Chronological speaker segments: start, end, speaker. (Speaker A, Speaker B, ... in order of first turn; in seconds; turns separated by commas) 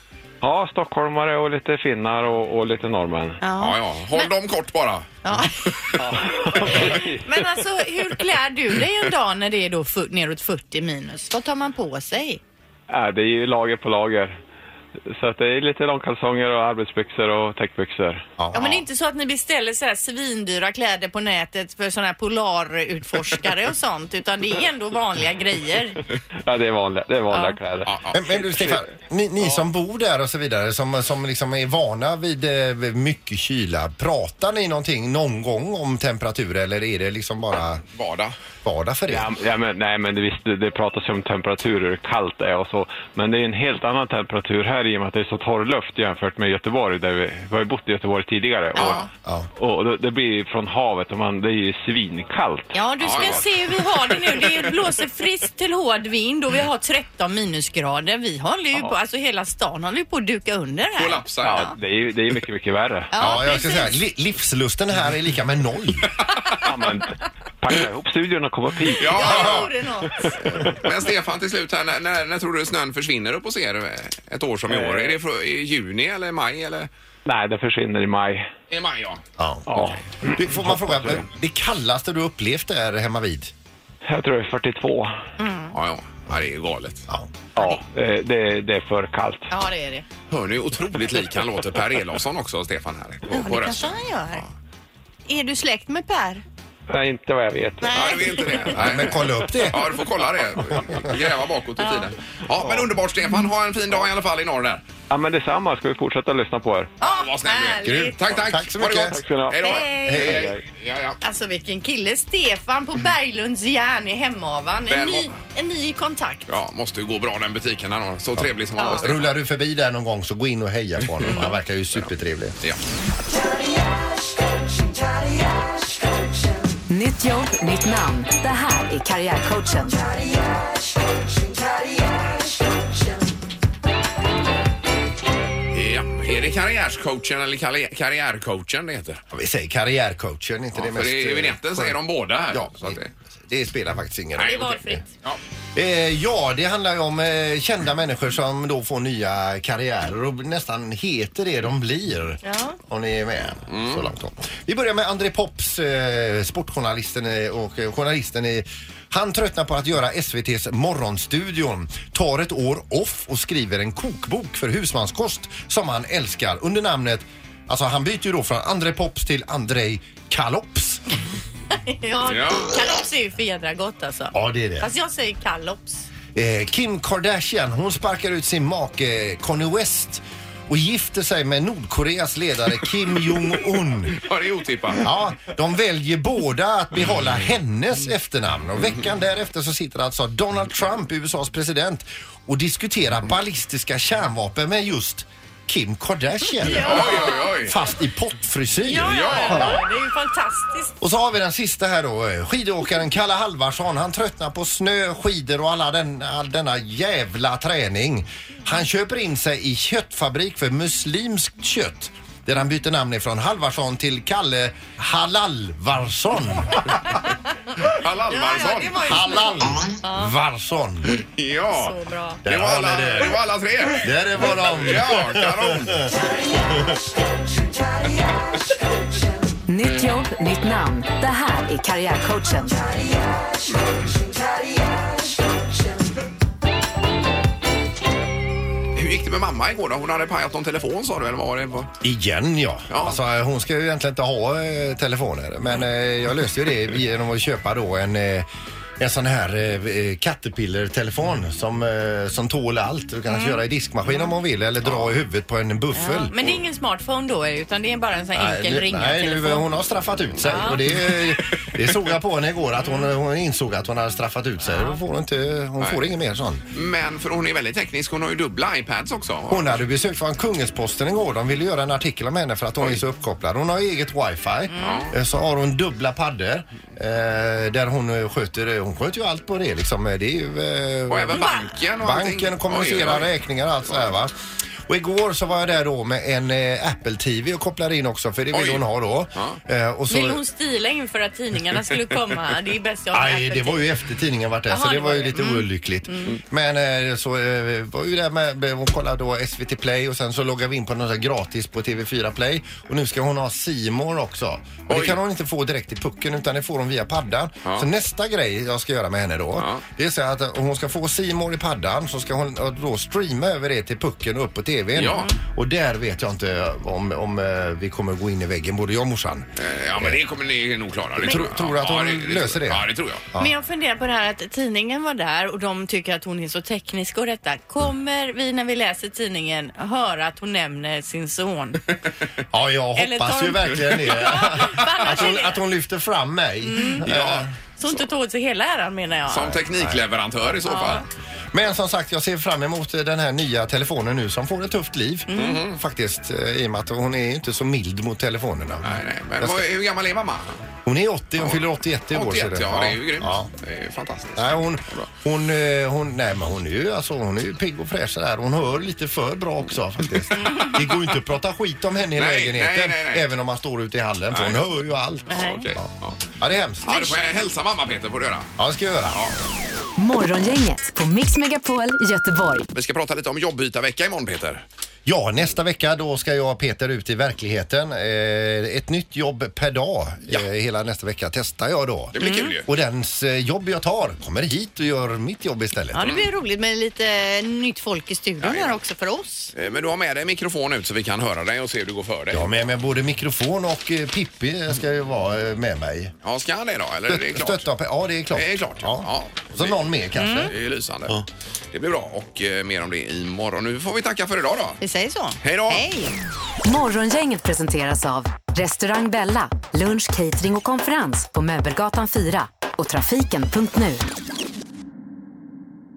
Speaker A: 0.4-3.4, Speaker B: 3.4-4.3, Speaker C: 3.6-5.0, Speaker B: 5.2-5.8, Speaker A: 6.0-7.2, Speaker B: 6.5-12.4, Speaker A: 12.9-14.3, Speaker A: 15.1-18.2, Speaker D: 18.4-18.8, Speaker B: 18.5-26.0, Speaker A: 26.4-27.9, Speaker B: 27.3-27.6, Speaker C: 27.9-28.8, Speaker D: 28.1-37.8, Speaker C: 37.9-38.3, Speaker D: 38.6-39.3, Speaker A: 39.1-53.4, Speaker C: 48.8-49.0, Speaker B: 48.8-49.0, Speaker B: 52.7-61.6, Speaker C: 53.0-53.4, Speaker C: 54.3-54.7, Speaker C: 61.0-61.6, Speaker A: 61.4-63.1, Speaker B: 63.1-64.0, Speaker D: 63.2-66.1, Speaker C: 66.2-66.5, Speaker A: 66.6-70.8, Speaker C: 69.0-69.7, Speaker B: 69.0-70.3, Speaker C: 70.4-76.9, Speaker A: 74.7-75.2, Speaker A: 77.2-78.5, Speaker C: 78.7-79.2, Speaker D: 79.4-83.5, Speaker A: 79.7-81.2, Speaker A: 84.0-85.1, Speaker B: 85.4-85.7, Speaker C: 85.7-87.1, Speaker A: 87.5-89.5, Speaker B: 89.5-90.0, Speaker C: 90.3-94.5, Speaker B: 93.3-94.4, Speaker B: 95.3-96.4, Speaker A: 96.9-98.6, Speaker B: 97.8-98.6, Speaker C: 97.9-104.8, Speaker D: 98.7-99.8, Speaker B: 101.8-102.0, Speaker A: 102.6-102.8, Speaker A: 105.1-106.9, Speaker B: 107.0-108.2, Speaker C: 107.0-111.2, Speaker D: 108.4-109.2, Speaker A: 109.1-110.6, Speaker B: 109.6-110.2, Speaker D: 110.0-110.5, Speaker B: 111.2-116.5, Speaker C: 114.9-115.3, Speaker C: 116.5-119.3, Speaker D: 118.4-122.6, Speaker B: 118.8-119.0, Speaker B: 121.3-121.5, Speaker E: 126.9-130.0, Speaker C: 135.7-139.2, Speaker D: 139.3-142.0, Speaker C: 140.7-143.1, Speaker D: 142.5-145.0, Speaker C: 144.4-145.4, Speaker B: 144.4-145.1, Speaker D: 145.7-171.0, Speaker B: 152.4-152.8, Speaker C: 153.7-154.1, Speaker B: 171.7-176.1, Speaker C: 172.2-172.7, Speaker D: 174.3-174.9, Speaker D: 176.3-184.2, Speaker C: 184.2-185.1, Speaker D: 185.0-199.8, Speaker B: 196.5-197.7, Speaker C: 196.8-197.7, Speaker B: 198.8-200.9, Speaker C: 199.1-199.7, Speaker D: 201.0-216.9, Speaker C: 217.8-219.2, Speaker B: 218.3-220.3, Speaker D: 219.0-221.2, Speaker C: 221.1-221.9, Speaker B: 221.7-222.4, Speaker D: 222.4-223.4, Speaker C: 222.4-226.1, Speaker D: 223.9-227.0, Speaker E: 229.7-232.8, Speaker C: 238.9-241.9, Speaker D: 242.0-248.5, Speaker C: 242.9-243.2, Speaker D: 249.0-256.3, Speaker B: 253.3-253.6, Speaker C: 254.8-255.2, Speaker B: 255.9-259.6, Speaker D: 258.3-266.6, Speaker B: 260.4-260.8, Speaker B: 264.6-265.0, Speaker C: 266.7-269.8, Speaker D: 269.5-281.4, Speaker B: 274.7-275.1, Speaker C: 274.8-275.1, Speaker C: 281.1-283.3, Speaker B: 281.3-281.6, Speaker D: 282.0-284.3, Speaker D: 284.9-290.4, Speaker C: 288.5-288.8, Speaker B: 290.1-293.9, Speaker D: 293.1-320.2, Speaker B: 294.7-296.4, Speaker C: 304.9-305.2, Speaker C: 309.6-309.8, Speaker C: 314.9-315.3, Speaker C: 319.6-323.2, Speaker D: 321.2-323.5, Speaker B: 323.4-331.8, Speaker D: 332.5-337.5, Speaker B: 332.9-335.6, Speaker B: 336.6-337.1, Speaker C: 337.0-338.0, Speaker B: 337.8-339.6, Speaker C: 339.3-341.0, Speaker D: 339.7-340.0, Speaker B: 340.6-341.0, Speaker D: 341.5-349.7, Speaker B: 345.3-345.6, Speaker C: 345.3-345.8, Speaker C: 348.8-350.6, Speaker D: 350.8-353.5, Speaker C: 351.4-355.1, Speaker D: 354.4-365.9, Speaker C: 362.1-363.2, Speaker C: 364.3-364.7, Speaker B: 365.3-365.6, Speaker C: 365.3-366.2, Speaker D: 366.4-367.1, Speaker C: 366.8-368.5, Speaker D: 368.6-369.2, Speaker E: 370.0-372.7, Speaker C: 372.7-374.6, Speaker D: 375.1-382.1, Speaker C: 382.1-382.7, Speaker B: 382.2-382.5, Speaker D: 382.6-386.1, Speaker B: 385.9-389.5, Speaker C: 386.0-386.3, Speaker C: 388.4-388.8, Speaker C: 389.5-392.5, Speaker D: 392.3-396.1, Speaker C: 396.2-397.6, Speaker D: 397.1-400.5, Speaker C: 398.3-404.8, Speaker B: 400.1-400.5, Speaker B: 404.8-406.1, Speaker C: 405.4-405.9, Speaker E: 406.6-414.0